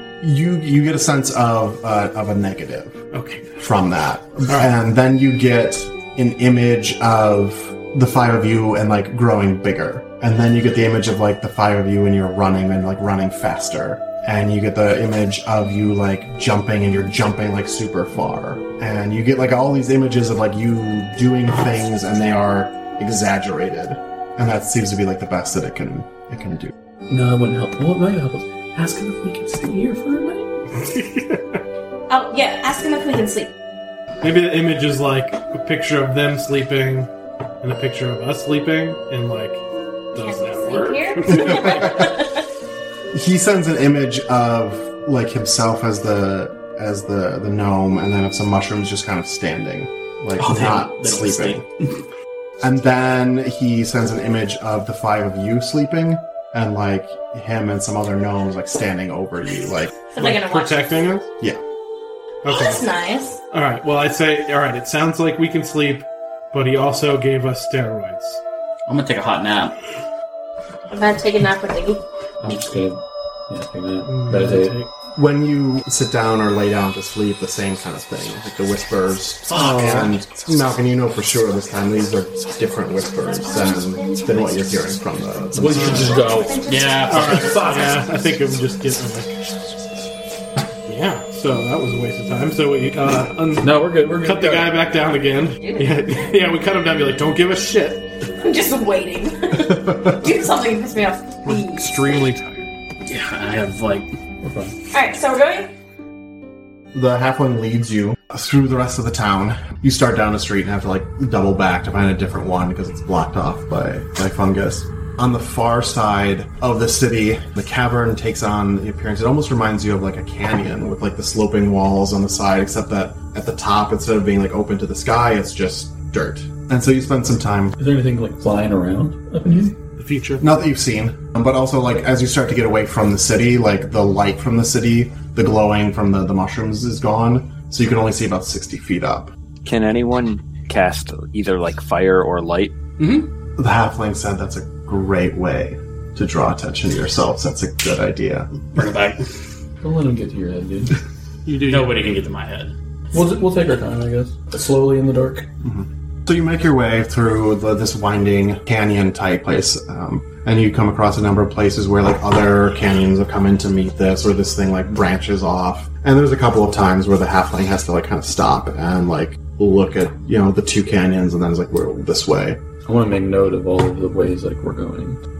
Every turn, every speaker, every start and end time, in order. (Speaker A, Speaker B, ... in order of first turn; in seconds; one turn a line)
Speaker A: 0.2-3.0
Speaker B: 3.1-3.6
Speaker A: 3.6-26.7
Speaker B: 4.5-4.7
Speaker C: 27.1-30.5
Speaker B: 30.8-31.6
Speaker D: 32.1-33.5
Speaker B: 34.2-41.9
Speaker D: 40.2-42.3
Speaker A: 41.2-42.1
Speaker A: 43.1-51.6
Speaker E: 50.4-51.6
Speaker A: 52.6-59.9
Speaker D: 60.1-61.0
Speaker B: 60.2-61.3
Speaker B: 62.4-62.8
Speaker D: 62.5-63.4
Speaker B: 63.5-68.4
Speaker E: 68.9-69.7
Speaker D: 70.9-72.0
Speaker C: 72.4-74.8
Speaker B: 74.0-74.9
Speaker A: 75.2-86.2
Speaker E: 79.5-79.9
Speaker C: 79.5-80.1
Speaker D: 83.2-84.5
Speaker C: 85.5-86.6
Speaker B: 85.7-86.1
Speaker D: 85.8-87.0
Speaker E: 86.7-87.9
Speaker B: 87.0-89.4
Speaker C: 87.3-87.9
Speaker B: 90.8-98.0
Speaker C: 93.6-94.8
Speaker D: 95.6-96.3
Speaker D: 98.4-102.2
Speaker B: 101.5-102.6
Speaker E: 103.0-104.1
Speaker C: 104.4-104.8
Speaker D: 104.9-105.7
Speaker A: 106.9-127.8
Speaker C: 127.8-129.8
Speaker B: 130.0-130.4
Speaker A: 130.4-139.3
Speaker F: 139.6-142.7
Speaker E: 143.0-143.3
Speaker A: 143.6-148.5
Speaker E: 148.7-149.3
Speaker C: 149.8-151.0
Speaker B: 151.4-152.1
Speaker E: 151.7-152.7
Speaker C: 153.1-155.5
Speaker A: 155.6-172.6
Speaker C: 172.8-175.2